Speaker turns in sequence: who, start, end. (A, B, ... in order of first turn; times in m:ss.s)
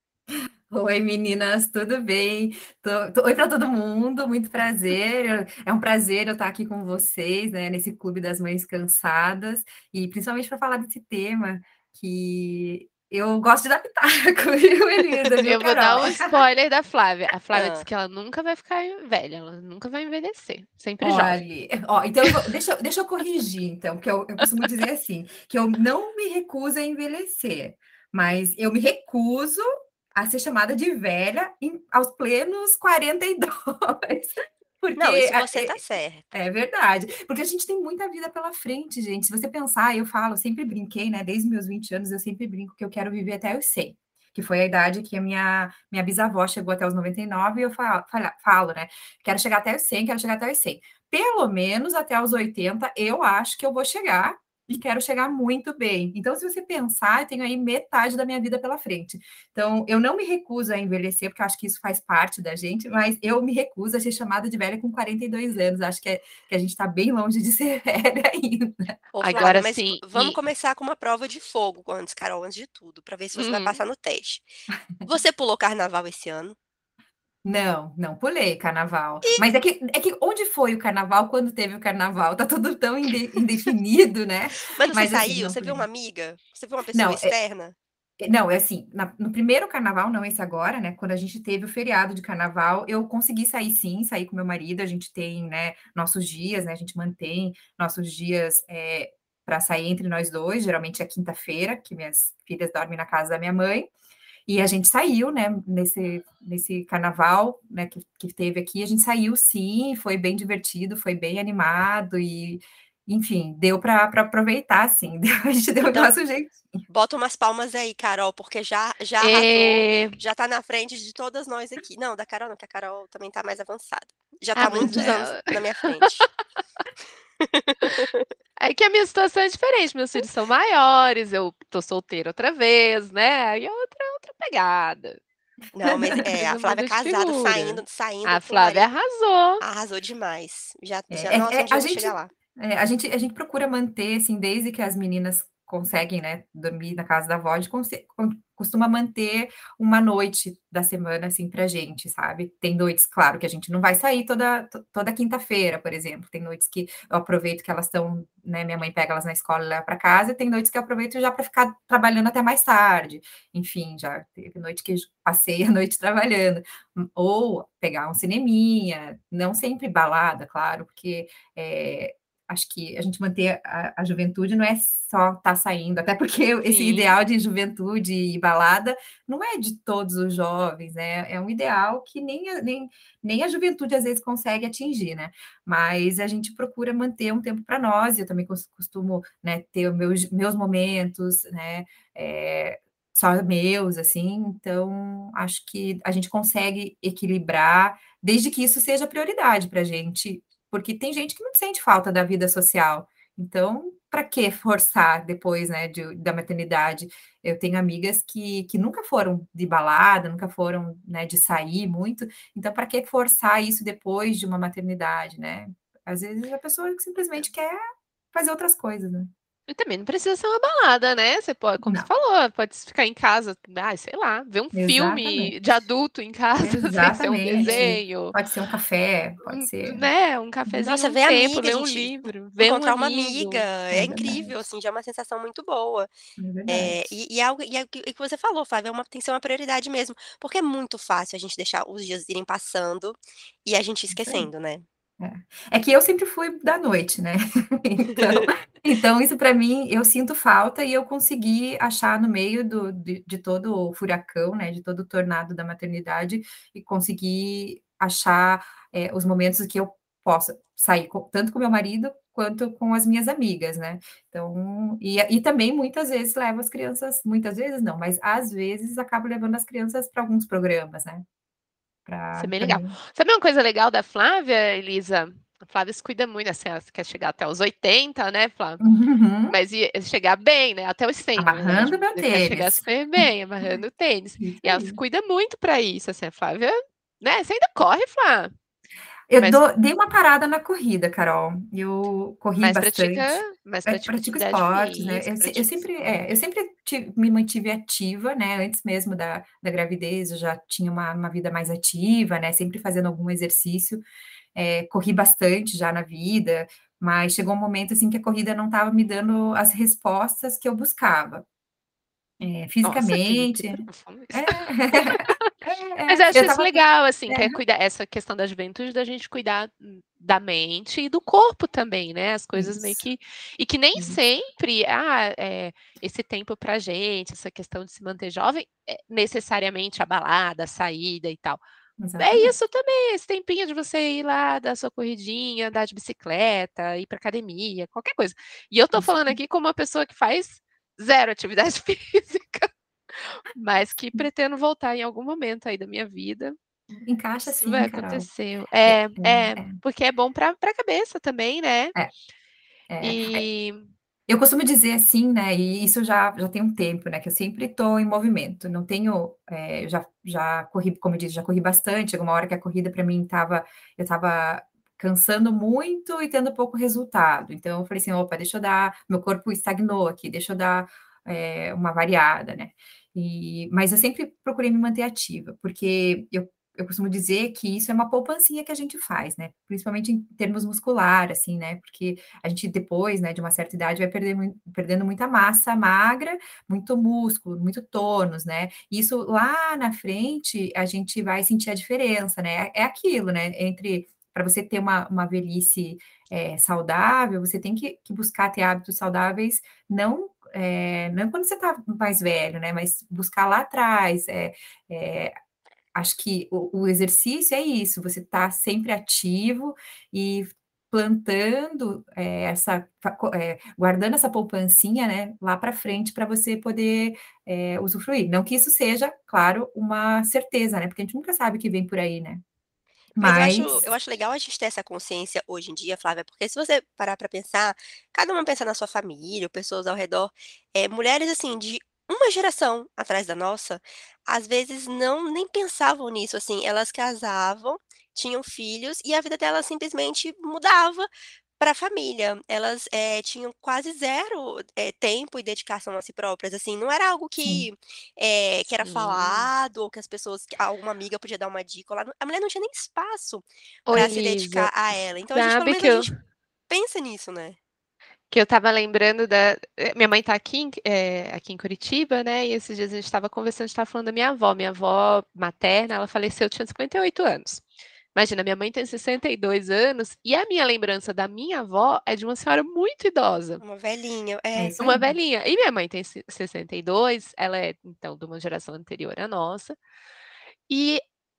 0:00.7-0:16.4 A
0:15.4-0:21.4 B
0:17.5-0:17.8 C
0:21.0-0:35.8 A
0:35.0-0:36.3 C
0:36.3-1:09.0 A
1:09.1-1:14.5 C
1:09.2-1:10.4 B
1:13.4-1:13.8 B
1:15.0-1:16.6 C
1:17.4-1:25.9 A
1:24.7-1:27.8 C
1:26.9-1:27.3 A
1:28.2-1:43.9 A
1:44.5-1:56.8 A
1:56.9-2:06.2 C
1:59.2-2:00.2 B
2:04.6-2:06.2 B
2:07.4-2:08.3 C
2:08.6-2:15.2 B
2:15.8-2:18.9 C
2:16.1-2:19.6 B
2:19.6-2:22.3 C
2:21.1-3:37.8 A
2:56.6-2:57.2 B
3:38.3-3:39.3 A
3:39.7-3:48.4 B
3:41.8-3:42.1 A
3:44.7-3:45.5 A
3:46.6-3:50.1 A
3:47.6-3:47.9 C
3:49.4-3:53.7 B
3:50.8-3:56.1 C
3:53.9-3:54.5 A
3:56.4-3:57.0 A
3:56.7-4:04.8 C
4:04.1-4:04.5 A
4:05.2-4:31.2 A
4:08.2-4:08.5 C
4:32.1-4:33.0 A
4:32.4-4:38.8 B
4:38.8-4:39.6 A
4:39.5-4:48.5 B
4:41.4-4:42.8 A
4:44.4-4:45.0 A
4:49.3-5:04.0 A
4:52.6-4:56.2 B
5:04.6-5:11.5 A
5:12.4-5:17.6 A
5:12.8-5:15.5 B
5:16.1-5:31.6 B
5:22.6-5:23.0 A
5:32.0-5:32.5 A
5:32.2-5:46.6 B
5:38.9-5:39.4 A
5:47.0-5:48.3 A
5:47.4-5:52.0 B
5:48.8-5:49.8 A
5:52.9-5:53.4 A
5:53.0-5:53.9 B
5:54.3-6:45.3 A
6:45.9-7:02.4 A
7:03.2-7:03.8 A
7:03.2-7:21.1 C
7:21.6-7:36.1 C
7:28.8-7:29.5 B
7:33.9-7:34.7 B
7:35.3-7:36.2 B
7:36.7-7:37.6 C
7:38.3-7:53.6 B
7:53.6-7:54.8 C
7:54.6-7:55.2 A
7:54.8-7:59.8 B
8:00.7-8:01.0 B